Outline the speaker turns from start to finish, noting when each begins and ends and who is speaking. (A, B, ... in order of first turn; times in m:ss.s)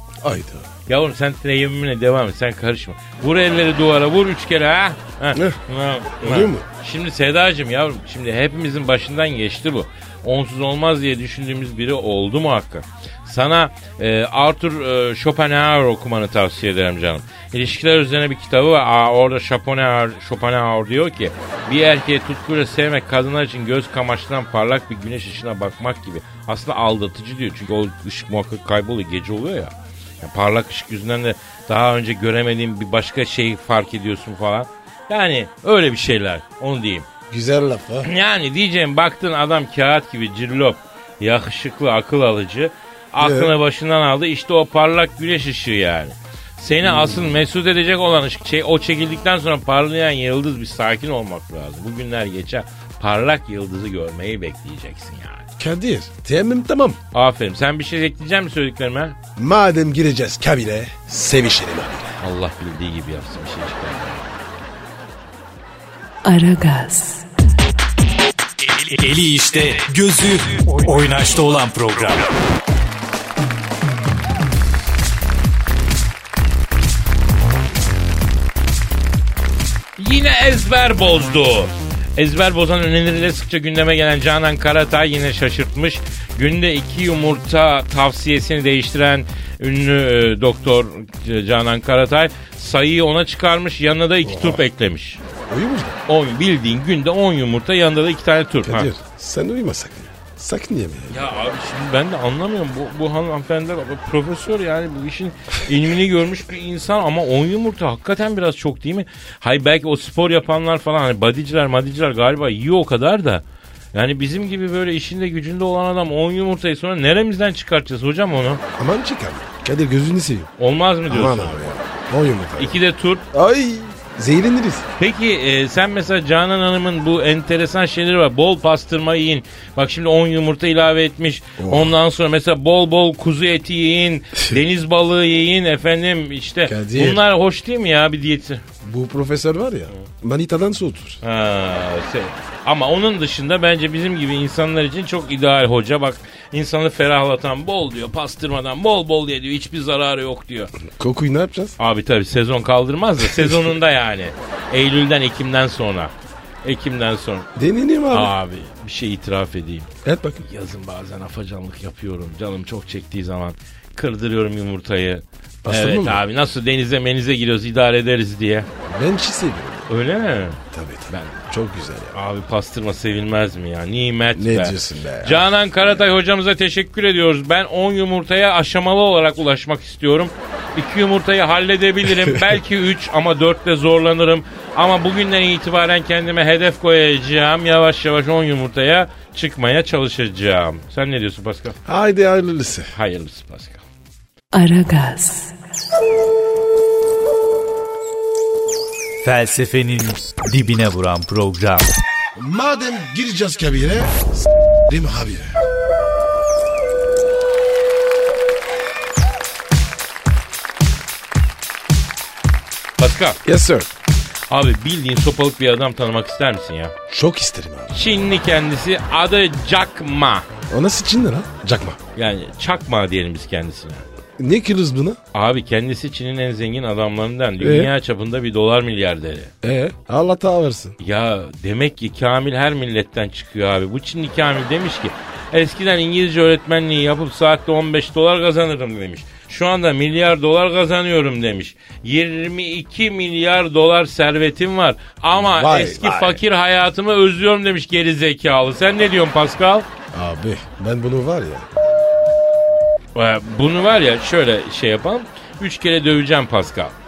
0:00.2-0:00.7 A
0:00.9-0:37.1 B
0:05.3-0:05.6 A
0:06.2-0:06.6 A
0:37.3-0:38.1 A
0:38.0-0:55.4 B
0:43.2-0:43.5 A
0:46.8-0:47.4 A
0:55.6-0:57.0 A
0:57.1-0:59.2 B
0:59.4-1:02.2 A
1:02.2-1:04.4 B
1:06.2-1:07.2 C
1:08.6-1:12.3 D
1:20.0-1:35.2 B
1:34.2-1:34.6 A
1:35.5-1:36.0 A
1:36.1-1:38.9 B
1:38.6-1:41.2 A
1:41.1-1:53.4 B
1:53.9-1:58.6 B
1:58.8-2:00.5 A
2:00.6-2:01.6 B
2:01.1-2:02.8 A
2:02.6-2:03.2 B
2:03.3-2:04.9 A
2:05.0-2:18.6 B
2:11.6-2:11.9 A
2:16.6-2:17.2 A
2:18.8-2:21.2 A
2:21.2-2:30.7 B
2:30.8-2:31.8 A
2:31.8-2:36.1 B
2:33.3-2:33.5 A
2:36.6-2:37.5 B
2:37.6-2:38.3 A
2:38.1-2:39.9 B
2:40.0-2:40.4 A
2:40.4-2:48.7 B
2:45.6-2:46.2 A
2:48.9-2:49.9 A
2:49.9-2:51.5 B
2:50.7-2:52.2 A
2:52.1-3:11.8 B
2:54.3-2:56.0 A
3:11.8-3:12.9 A
3:12.9-3:13.8 B
3:14.5-3:15.5 C
3:19.2-3:21.9 D
3:22.4-3:24.2 A
3:24.9-3:25.5 A
3:33.0-3:33.4 B
3:33.4-3:33.9 A
3:34.5-3:36.9 B
3:37.1-3:37.9 A
3:37.9-3:40.4 B
3:40.7-3:42.0 A
3:42.2-3:44.0 B
3:44.4-3:45.2 A
3:45.3-3:49.5 B
3:47.6-3:47.9 A
3:49.6-3:51.0 A
3:51.0-4:09.9 B
4:05.3-4:06.4 A
4:10.1-4:11.7 A
4:13.1-4:16.9 B